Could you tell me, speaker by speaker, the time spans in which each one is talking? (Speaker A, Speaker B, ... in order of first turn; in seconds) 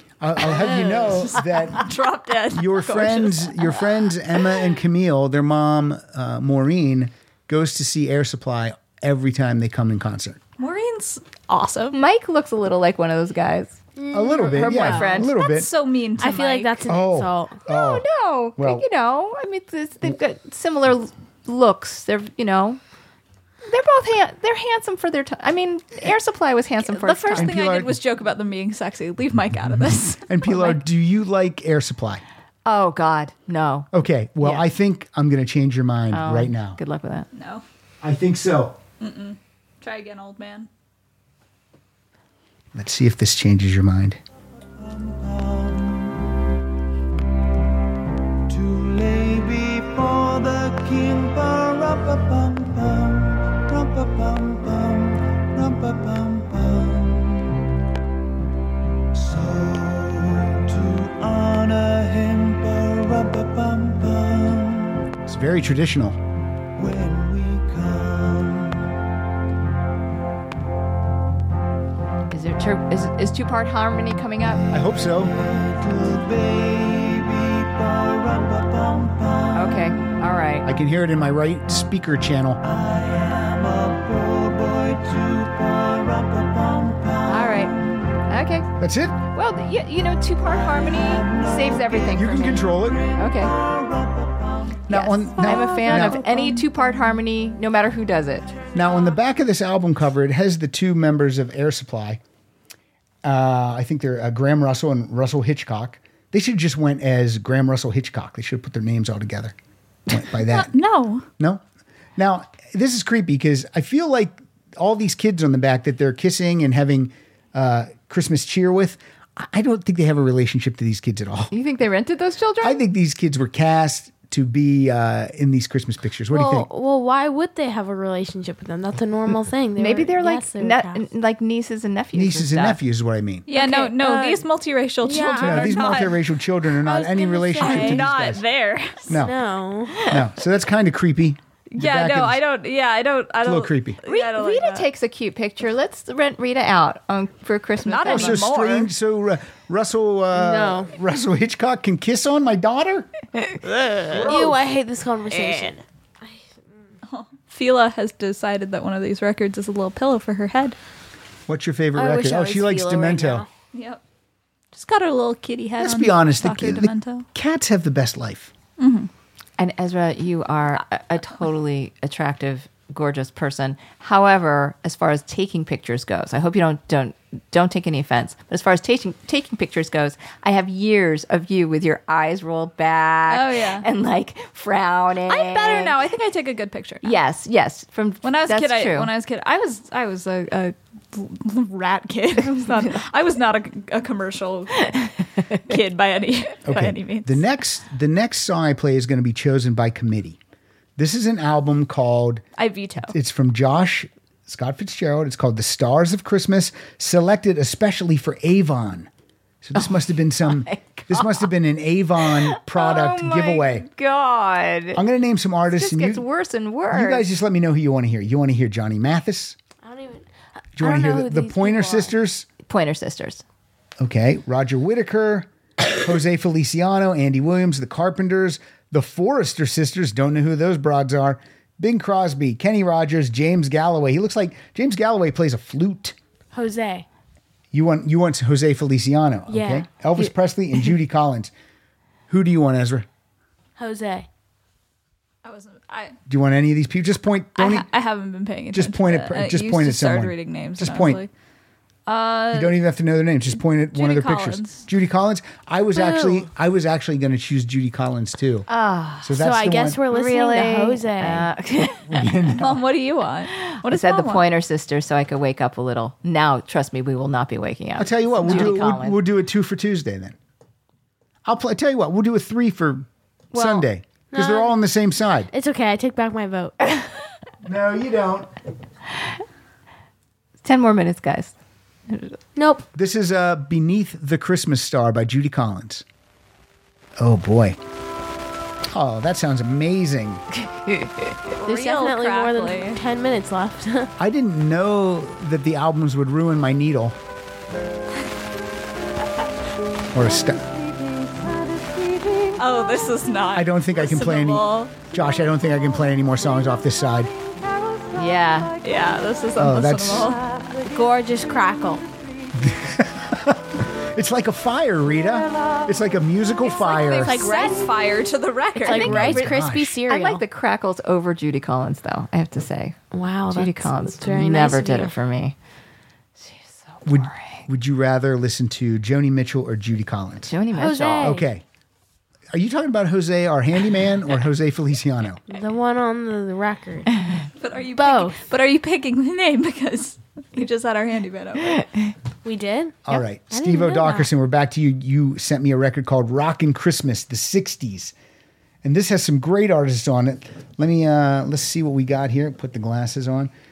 Speaker A: 0.2-1.9, 2.5-10.4, 14.1-15.7, 16.9-18.0, 18.6-18.8, 27.4-28.0, 29.6-32.2, 33.9-36.8, 38.0-38.8, 42.7-44.2, 65.2-66.2, 74.7-75.3, 80.6-82.6, 88.8-89.2, 92.1-93.0, 94.9-96.3, 98.7-102.2, 103.2-109.5, 110.1-110.8, 111.4-111.6, 112.2-121.5, 122.6-126.7, 132.1-133.5, 135.4-138.4, 139.1-139.4, 140.1-142.4, 143.4-144.0, 148.0-153.1, 161.5-163.4, 165.8-168.5, 196.7-200.4, 201.0-202.4, 203.0-209.1, 209.6-213.8, 214.9-216.2, 216.9-219.6, 220.8-222.5, 224.0-236.2, 237.7-241.5, 242.3-243.1, 246.3-247.9, 248.7-251.2, 252.5-258.7, 259.2-260.0, 262.1-262.8, 268.0-270.4, 271.4-275.5, 277.6-278.5, 282.9-286.0, 287.2-287.8, 288.9-290.4, 294.2-297.1, 300.1-300.6, 303.5-307.3, 309.6-310.4, 312.5-317.5, 318.9-320.0, 327.0-330.5, 331.2-331.6, 332.5-335.4, 343.1-348.1, 348.8-353.5
Speaker B: 0.4-3.9, 10.6-12.0, 14.7-16.9, 26.9-30.8, 37.3-37.6, 39.0-40.7, 110.2-111.2, 133.5-136.2, 137.6-139.2, 141.7-144.9, 147.8-148.9, 155.3-155.7, 157.1-160.8, 163.7-164.0, 164.7-167.3, 168.8-169.1, 183.3-183.9, 185.2-187.2, 188.2-195.1, 195.7-197.4, 202.6-203.1, 245.4-246.2, 247.5-251.3, 252.1-252.8, 253.9-254.9, 262.5-264.4, 291.6-293.0, 302.6-305.0, 308.8-310.4, 316.7-319.5, 337.6-341.8
Speaker C: 11.9-13.8, 14.5-15.3, 17.6-22.8, 23.6-27.5, 32.6-33.9, 34.4-34.6, 36.1-37.3, 72.3-74.6, 79.5-80.7, 87.3-87.7, 88.3-88.7, 89.3-93.5, 94.9-98.5, 121.5-122.8, 129.3-132.8, 133.8-134.4, 144.0-148.4, 169.6-186.0, 187.0-189.1, 209.7-211.5, 212.3-215.0, 215.7-217.3, 222.7-223.4, 258.7-259.3, 260.1-262.3, 263.5-269.2, 273.5-273.9, 280.6-281.5, 282.1-282.4, 290.6-291.3, 308.1-308.7, 316.8-317.9, 320.1-323.0, 323.5-325.5, 326.4-327.6, 330.5-331.4
Speaker D: 14.0-15.0, 16.2-17.6, 126.3-131.0, 133.6-134.4, 135.0-136.0, 136.8-138.1, 139.1-140.1, 150.3-150.9, 154.1-155.8, 162.0-163.4, 219.8-222.1, 236.5-237.1, 239.5-239.8, 243.8-244.3, 255.9-256.4, 259.4-261.5, 274.3-274.8, 275.5-276.9, 282.6-282.8, 291.6-294.1, 310.8-312.0, 317.3-317.8, 318.8-320.4, 323.1-325.1, 330.7-331.5, 335.5-337.2, 337.9-338.4, 342.4-344.3
Speaker E: 44.8-46.2, 48.5-57.6, 59.1-65.0, 66.8-68.9, 74.6-80.0, 82.6-87.8, 90.9-94.8